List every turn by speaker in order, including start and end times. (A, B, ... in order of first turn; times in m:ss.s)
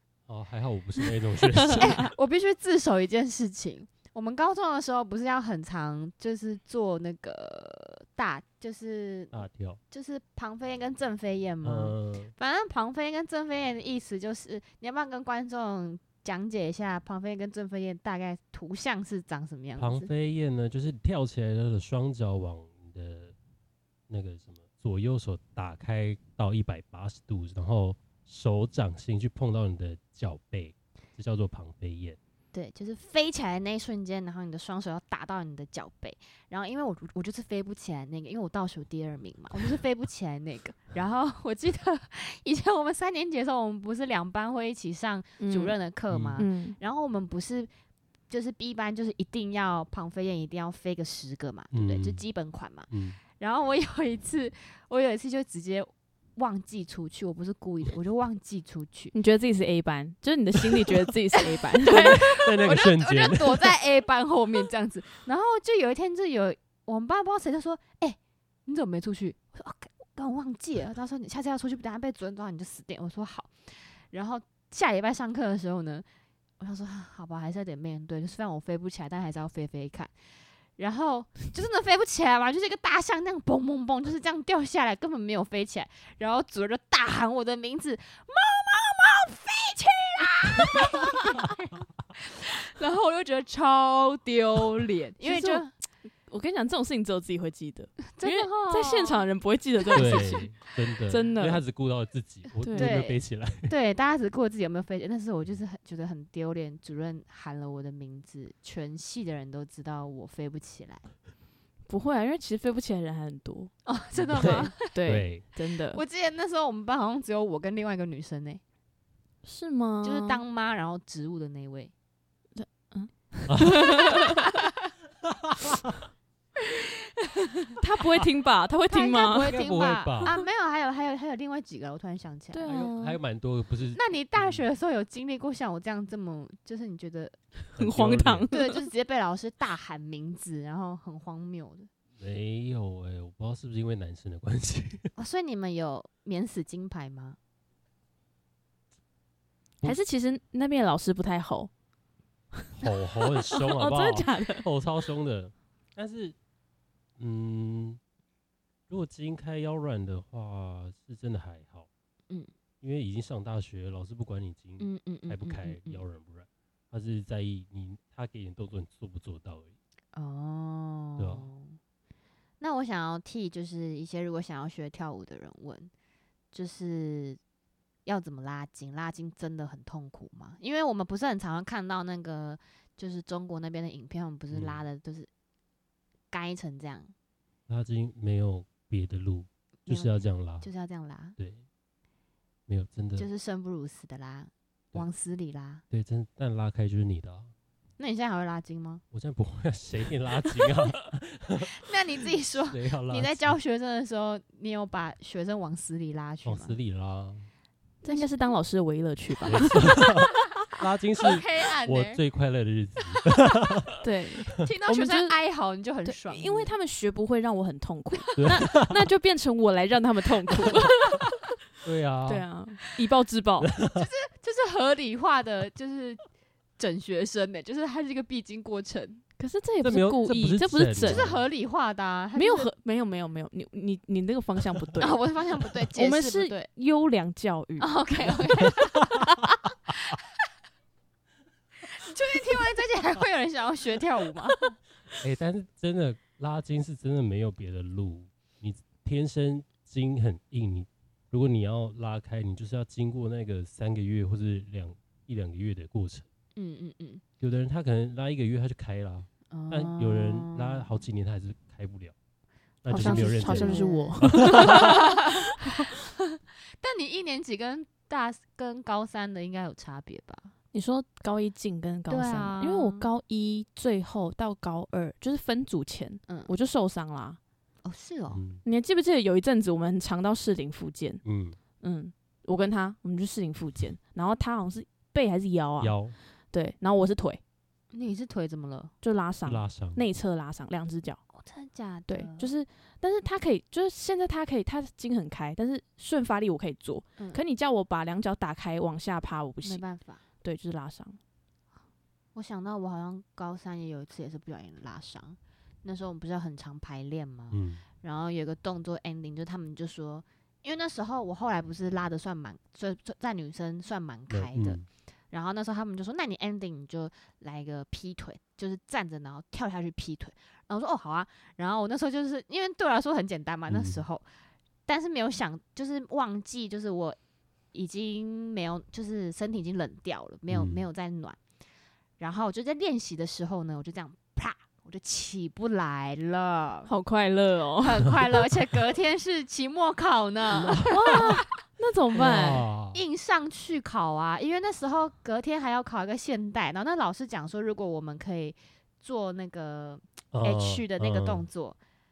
0:00.3-0:02.0 A
0:01.5-0:01.9 B
0:01.8-0:20.1 C
0:09.3-0:09.8 A
0:11.6-0:12.3 A
0:19.8-0:23.3 A
0:24.1-0:32.2 A
0:32.5-0:47.7 C
0:45.4-0:45.7 B
0:46.1-0:46.4 A
0:46.4-0:46.8 B
0:48.3-0:59.1 C
0:51.7-0:52.2 A
0:52.9-0:53.2 A
0:59.1-1:02.2 B
1:01.4-1:16.0 C
1:01.9-1:03.8 A
1:16.6-1:20.1 C
1:20.8-1:35.7 C
1:35.2-1:35.6 B
1:36.3-1:41.6 B
1:38.1-1:39.3 C
1:39.8-1:40.4 C
1:39.9-1:43.7 A
1:42.6-1:43.0 B
1:42.7-1:51.1 C
1:51.9-1:56.0 B
1:53.8-1:54.9 C
1:54.2-1:55.4 A
1:55.9-1:58.6 C
1:59.4-2:00.4 B
2:00.0-2:01.9 C
2:02.6-2:04.5 B
2:03.5-2:04.1 A
2:03.9-2:04.5 C
2:05.2-2:06.0 A
2:06.7-2:07.7 C
2:07.8-2:09.5 B
2:08.9-2:12.7 C
2:09.4-2:10.3 A
2:12.5-2:13.2 B
2:12.6-2:14.6 A
2:13.9-2:17.4 C
2:17.8-2:18.8 B
2:17.8-2:18.5 A
2:18.5-2:21.9 C
2:22.2-2:25.1 A
2:25.2-2:27.4 C
2:29.8-2:31.7 B
2:32.6-2:34.6 B
2:32.8-2:36.4 A
2:37.2-2:38.0 A
2:38.9-2:41.9 A
2:42.8-2:49.8 A
2:44.8-2:46.0 C
2:50.1-2:51.8 C
2:51.2-2:51.5 A
2:52.6-2:55.9 C
2:56.5-2:57.4 C
2:58.0-3:05.3 C
3:04.5-3:04.8 A
3:06.3-3:07.1 C
3:07.7-3:10.7 A
3:09.8-3:11.4 C
3:11.4-3:11.6 A
3:12.7-3:13.3 A
3:13.2-3:15.8 C
3:15.9-3:17.5 A
3:18.0-3:19.0 C
3:19.1-3:21.8 A
3:21.8-3:26.8 C
3:22.7-3:23.5 A
3:26.4-3:27.5 A
3:28.0-3:30.0 B
3:28.0-3:28.5 C
3:29.4-3:34.0 A
3:31.2-3:32.2 C
3:34.0-3:35.3 B
3:34.6-3:36.7 C
3:36.0-3:41.2 B
3:38.4-3:39.1 A
3:41.8-3:42.4 A
3:42.3-3:43.7 B
3:43.6-3:44.1 A
3:43.9-3:46.2 C
3:46.8-3:49.2 C
3:49.4-3:51.3 B
3:49.8-3:51.4 A
3:51.0-3:52.7 C
3:52.3-3:55.2 B
3:55.0-3:56.7 C
3:56.0-3:58.0 B
3:57.8-3:59.3 C
4:01.9-4:04.7 C
4:05.2-4:16.2 A
4:16.6-4:17.2 C
4:17.4-4:22.1 A
4:19.5-4:20.9 C
4:22.8-4:25.1 A
4:22.9-4:25.3 B
4:22.9-4:30.5 C
4:30.7-4:37.4 B
4:32.1-4:33.0 C
4:36.3-4:36.5 C
4:37.8-4:38.4 C
4:38.3-4:38.6 A
4:38.6-4:41.2 B
4:41.2-4:41.6 A
4:41.8-4:45.9 B
4:45.8-4:46.2 A
4:46.5-4:47.4 B
4:47.9-4:48.9 C
4:49.0-4:51.2 B
4:49.4-4:50.0 A
4:51.3-4:52.5 C
4:52.1-4:59.8 B
4:59.6-5:00.2 C
5:00.4-5:01.2 B
5:02.3-5:24.2 C
5:07.5-5:07.8 A
5:14.3-5:14.8 A
5:23.7-5:24.0 A
5:24.8-5:27.2 C
5:27.7-5:31.4 C
5:30.5-5:30.8 A
5:32.2-5:36.9 C
5:36.9-5:38.1 B
5:37.8-5:41.4 C
5:40.5-5:41.4 A
5:40.8-5:42.7 B
5:42.1-5:43.0 A
5:42.9-5:51.8 C
5:50.3-5:51.4 A